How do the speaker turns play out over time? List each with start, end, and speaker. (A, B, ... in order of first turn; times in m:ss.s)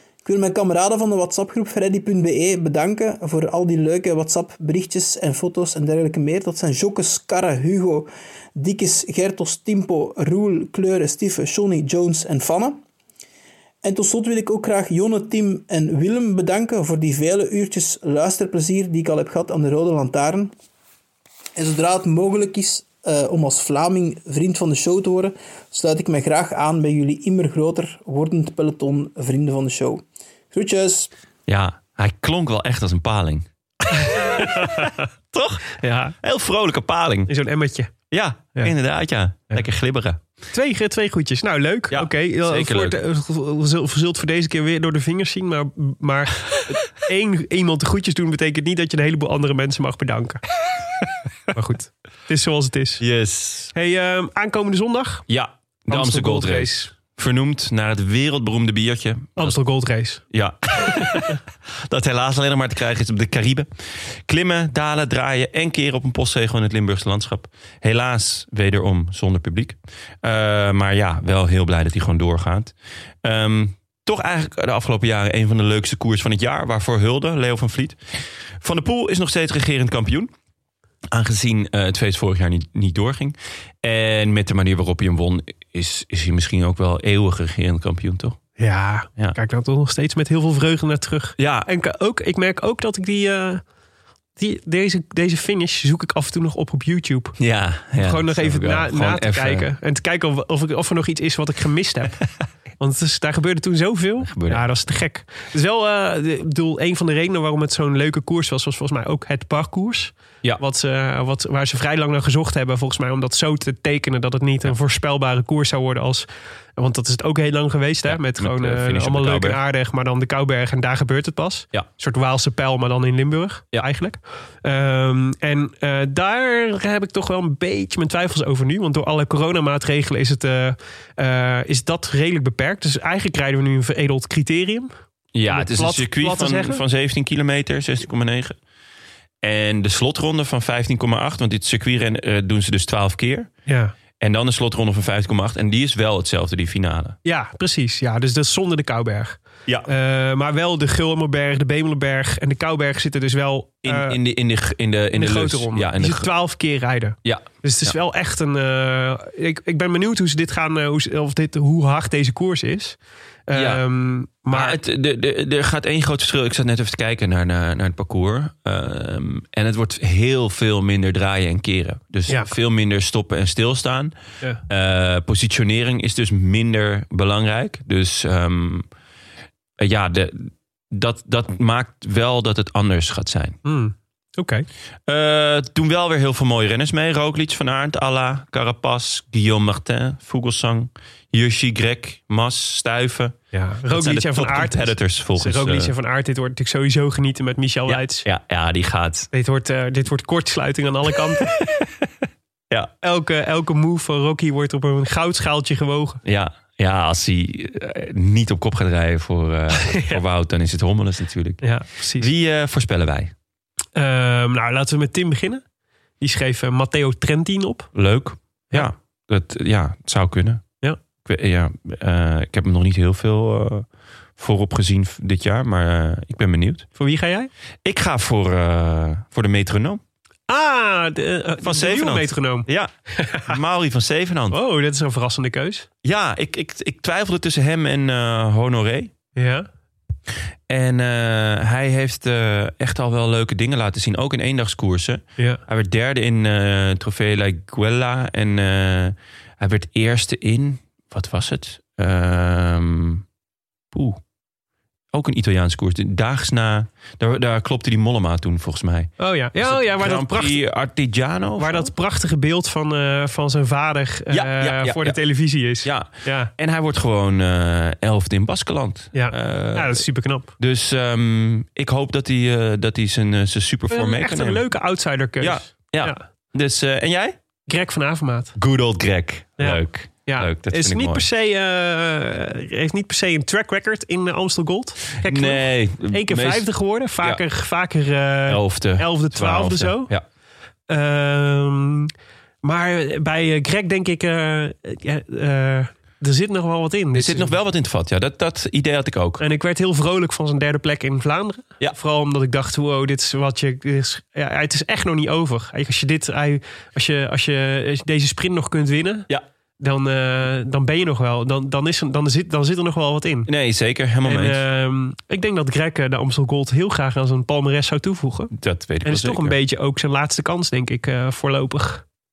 0:00.2-0:12.8 A
0:13.8-0:20.5 A
0:21.6-0:31.1 A
0:31.5-0:33.5 B
0:34.0-0:35.0 C
0:34.0-0:37.3 B
0:35.8-0:36.1 C
0:37.3-0:37.9 C
0:38.1-0:40.2 B
0:40.5-0:50.4 C
0:41.9-0:43.0 B
0:51.5-0:53.0 C
0:53.0-0:53.7 B
0:53.7-0:55.3 C
0:55.3-0:59.6 B
0:55.9-0:56.9 C
0:59.4-1:00.2 C
1:00.3-1:03.7 B
1:00.9-1:01.3 C
1:04.2-1:12.7 B
1:13.2-1:18.0 B
1:18.6-1:20.3 B
1:21.1-1:28.4 B
1:28.6-1:33.6 C
1:31.4-1:31.7 B
1:34.4-1:37.3 C
1:37.4-1:39.7 B
1:38.0-1:42.2 C
1:42.8-2:14.9 C
1:44.2-1:44.6 B
1:58.0-1:59.6 B
2:15.3-2:18.6 B
2:15.5-2:16.8 C
2:19.4-2:23.5 B
2:23.7-2:23.9 C
2:24.2-2:27.2 B
2:27.2-2:34.2 C
2:33.8-2:36.3 B
2:35.1-2:44.8 C
2:37.2-2:37.9 B
2:43.5-2:43.8 B
2:44.5-2:54.1 B
2:52.3-2:52.5 C
2:54.7-2:58.8 B
2:59.8-3:03.6 B
3:03.6-3:04.6 C
3:05.1-3:15.9 B
3:13.5-3:18.2 C
3:17.9-3:19.3 B
3:19.3-3:21.5 C
3:23.0-3:26.2 C
3:26.2-3:31.6 B
3:29.8-3:30.2 C
3:31.6-3:32.3 C
3:32.2-3:33.3 B
3:34.0-3:35.6 C
3:36.2-3:37.9 C
3:37.9-3:40.6 B
3:41.2-3:43.8 B
3:44.4-3:46.9 B
3:47.0-3:47.5 C
3:47.8-3:50.0 B
3:50.5-3:53.6 C
3:51.6-3:52.9 B
3:53.4-3:54.6 B
3:54.5-3:55.9 C
3:56.0-3:59.1 B
3:59.4-3:59.7 C
4:00.7-4:13.2 B
4:13.9-4:14.2 B
4:15.1-4:21.9 B
4:19.2-4:20.6 C
4:21.6-4:26.5 C
4:24.3-4:30.0 B
4:29.1-4:30.5 C
4:30.6-4:34.6 B
4:33.9-4:36.2 C
4:35.4-4:37.3 B
4:37.7-4:38.6 C
4:38.6-4:41.2 B
4:39.6-4:50.1 C
4:45.2-4:46.7 B
4:48.5-4:50.2 B
4:50.9-4:52.1 C
4:52.6-4:57.5 C
4:57.1-4:59.4 B
4:59.4-5:09.3 C
5:09.8-5:13.5 C
5:13.5-5:14.6 B
5:14.2-5:18.5 C
5:18.5-5:19.6 B
5:19.0-5:22.0 C